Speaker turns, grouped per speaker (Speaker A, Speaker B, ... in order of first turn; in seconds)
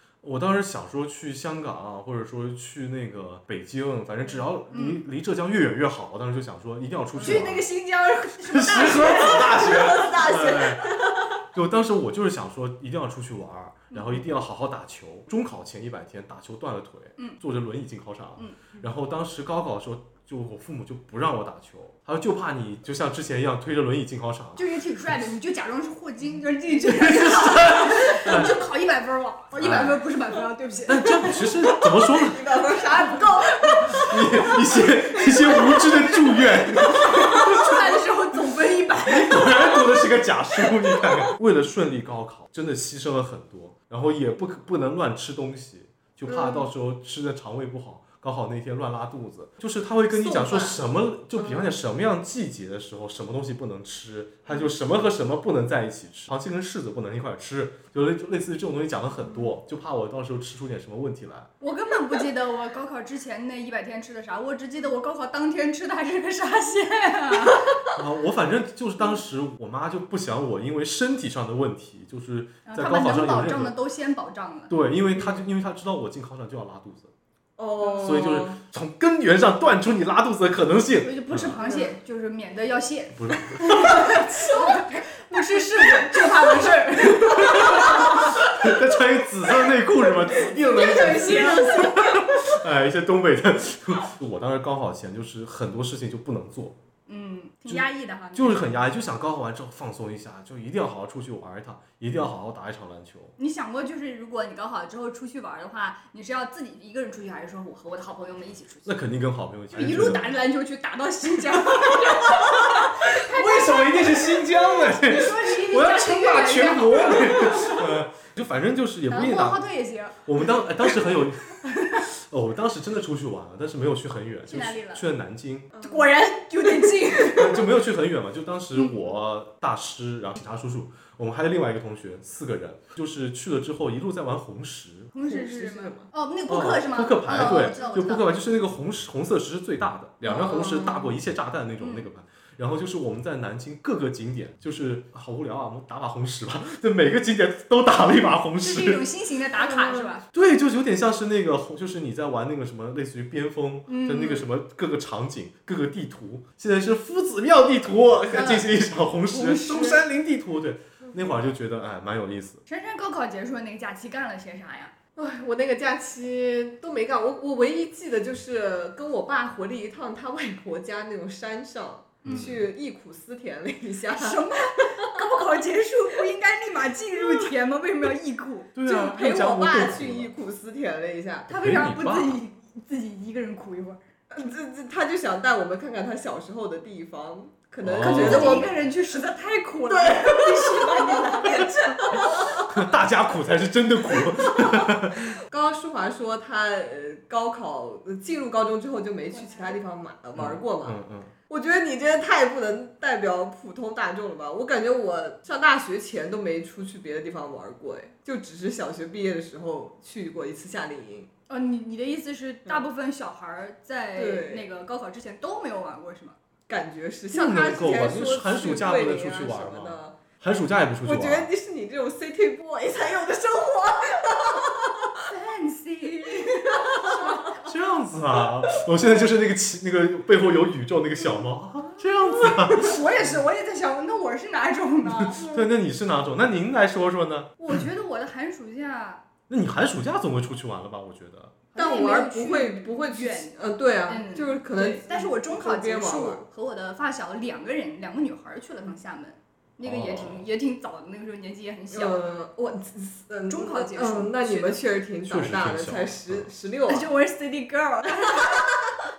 Speaker A: 0.2-7.7, 8.5-24.6, 26.8-28.6, 29.6-30.0, 30.9-32.5, 33.8-37.9, 39.1-61.5, 67.9-73.7, 74.7-77.1, 78.0-81.6, 83.2-84.2, 87.1-96.8, 97.7-103.3, 108.9-110.3, 113.0-119.6, 120.2-125.7, 127.2-135.1, 136.5-149.0, 150.3-162.6, 172.2-172.6, 178.8-180.3, 181.5-182.4, 187.8-188.7, 192.6-195.4, 200.4-201.3, 217.3-221.5, 227.5-233.3, 235.2-237.7, 239.5-241.6, 249.8-250.4, 255.2-256.5
Speaker B: 4.7-5.0, 7.2-10.1, 13.9-14.2, 24.6-31.5, 33.1-33.9, 36.9-39.9, 61.6-67.6, 72.7-74.7, 81.0-88.3, 90.5-92.2, 97.1-98.8, 103.4-109.0, 109.7-117.8, 119.1-120.2, 121.7-122.0, 124.5-125.0, 125.8-127.6, 135.1-138.3, 141.8-142.1, 148.6-150.2, 153.9-154.4, 158.3-158.7, 159.3-160.0, 162.7-164.9, 174.1-179.2, 181.5-184.0, 188.0-192.4, 199.3-199.8, 211.5-216.4, 225.3-227.6, 232.6-235.4, 237.6-239.2, 241.7-252.2, 253.5-254.8, 256.9-258.7
Speaker C: 7.2-7.5, 9.0-11.4, 31.7-36.0, 37.2-37.6, 46.2-46.7, 50.1-51.8, 75.2-75.4, 77.6-78.6, 81.7-81.9, 84.0-84.8, 125.7-126.1, 135.2-136.1, 140.2-141.2, 149.6-150.2, 165.2-175.1, 177.2-177.5, 179.1-181.5, 184.3-188.7, 189.9-192.7, 194.2-201.0, 201.5-211.3, 214.2-214.7, 216.7-220.2, 221.0-225.2, 226.7-227.5, 241.8-246.4, 251.9-257.1, 258.2-258.9